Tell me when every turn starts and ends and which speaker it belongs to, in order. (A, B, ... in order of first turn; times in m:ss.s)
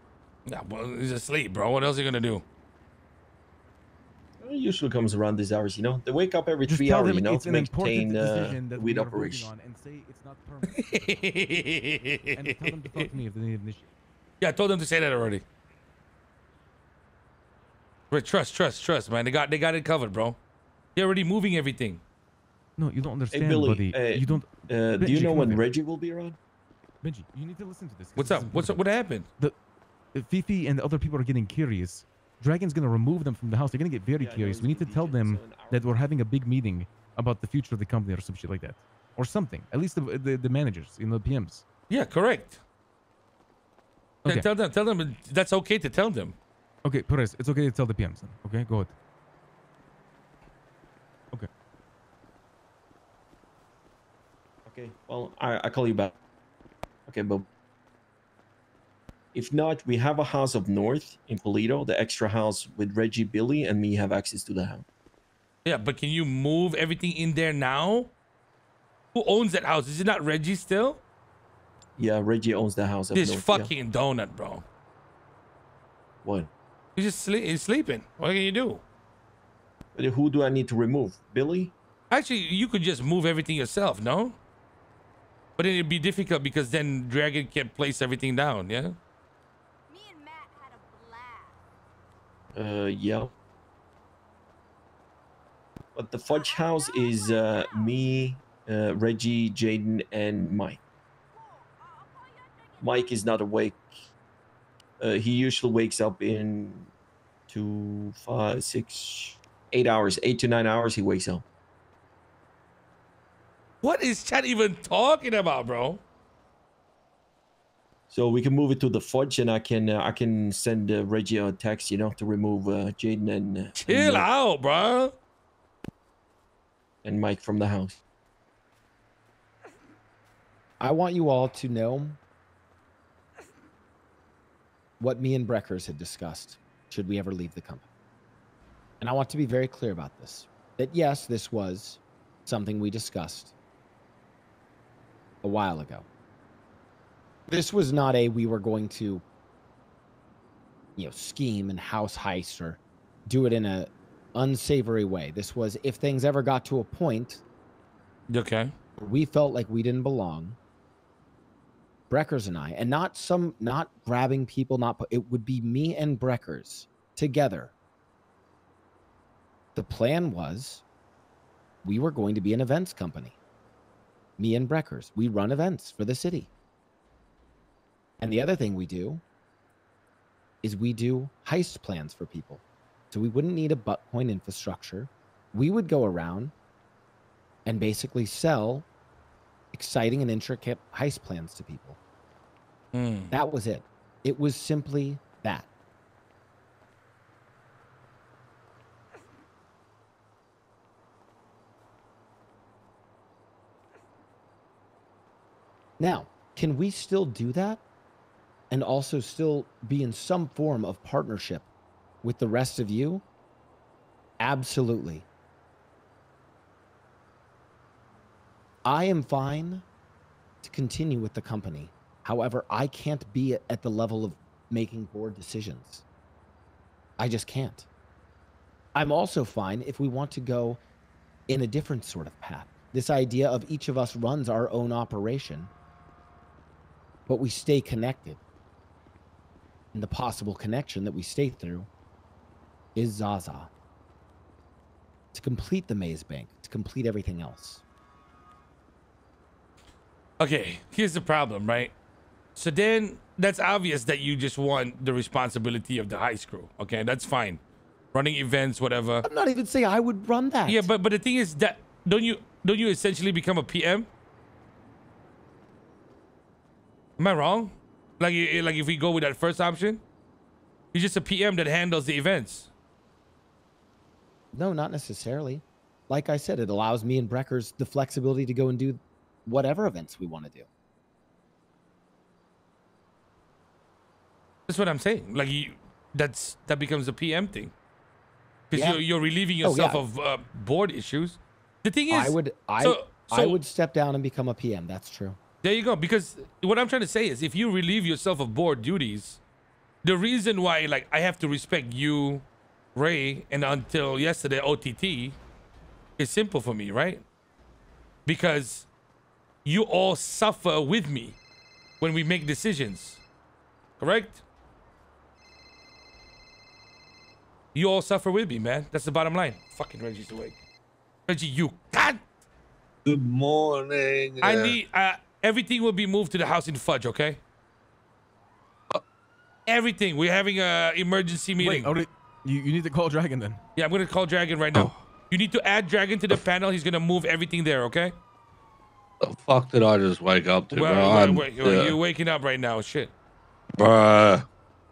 0:00.4-0:02.4 A
0:04.4-0:09.5 B
0:06.7-0:11.5 C
0:10.7-0:13.1 A
0:12.3-0:13.9 C
0:14.4-0:15.4 A
0:18.1-0:20.4 A
0:21.0-0:22.0 A
0:22.8-0:25.6 C
0:23.3-0:26.4 B
0:27.0-0:28.8 C
0:28.2-0:29.3 A
0:30.1-0:41.6 C
0:34.2-0:35.8 B
0:41.9-0:42.6 A
0:44.3-0:46.4 A
0:46.8-0:48.9 C
0:54.6-0:56.1 B
0:57.1-0:57.4 B
0:59.3-1:04.8 B
1:05.6-1:08.1 A
1:09.1-1:11.0 A
1:12.0-1:13.7 B
1:13.1-1:14.6 A
1:16.2-1:16.5 B
1:17.0-1:18.8 A
1:20.0-1:21.7 B
1:22.1-1:24.4 A
1:25.6-1:29.0 A
1:29.9-1:31.6 D
1:32.5-1:33.3 B
1:35.9-1:40.8 B
1:36.3-1:38.0 D
1:41.3-1:43.3 D
1:42.8-1:43.9 B
1:45.0-1:46.9 B
1:47.5-1:51.4 B
1:53.8-1:56.0 A
1:58.1-2:04.3 B
2:03.9-2:05.1 A
2:07.0-2:08.0 B
2:10.8-2:12.2 E
2:15.0-2:17.8 E
2:19.0-2:23.5 E
2:25.4-2:26.0 E
2:27.5-2:29.2 E
2:31.0-2:37.4 E
2:38.3-2:38.7 A
2:39.0-2:40.6 E
2:42.1-2:47.7 E
2:49.7-2:50.8 E
2:51.8-2:53.4 E
2:54.4-2:56.5 E
2:58.2-2:59.2 E
3:00.6-3:06.5 E
3:07.6-3:08.8 E
3:09.7-3:12.0 E
3:12.9-3:13.3 A
3:13.3-3:15.7 E
3:26.0-3:27.8 E
3:28.7-3:31.6 E
3:32.2-3:33.2 E
3:34.4-3:35.2 E
3:38.8-3:39.8 E
3:40.6-3:46.0 E
3:47.2-3:47.9 E
3:48.9-3:50.8 E
3:51.5-3:55.7 E
3:57.3-3:58.4 E
3:59.9-4:01.9 E
4:02.9-4:03.7 E
4:05.3-4:07.8 E
4:10.4-4:11.9 A
4:12.6-4:17.6 A
4:18.1-4:19.3 A
4:19.2-4:20.9 E
4:20.6-4:24.1 A
4:27.2-4:30.0 A
4:30.9-4:32.7 A
4:34.5-4:40.7 E
4:44.7-4:47.7 A
4:48.7-4:53.6 A
4:48.7-4:49.0 E
4:49.6-4:50.0 E
4:52.1-4:55.4 E
4:55.6-4:59.4 A
5:00.0-5:05.4 A
5:06.2-5:07.2 A
5:08.2-5:08.9 A
5:09.6-5:11.4 A
5:12.0-5:13.2 A
5:14.0-5:14.4 A
5:17.7-5:20.6 A
5:21.3-5:22.2 A
5:23.0-5:24.8 F
5:24.4-5:27.4 A
5:29.7-5:31.9 A
5:31.6-5:33.6 C
5:33.8-5:38.1 A
5:39.2-5:42.0 F
5:40.7-5:43.1 A
5:43.8-5:44.4 F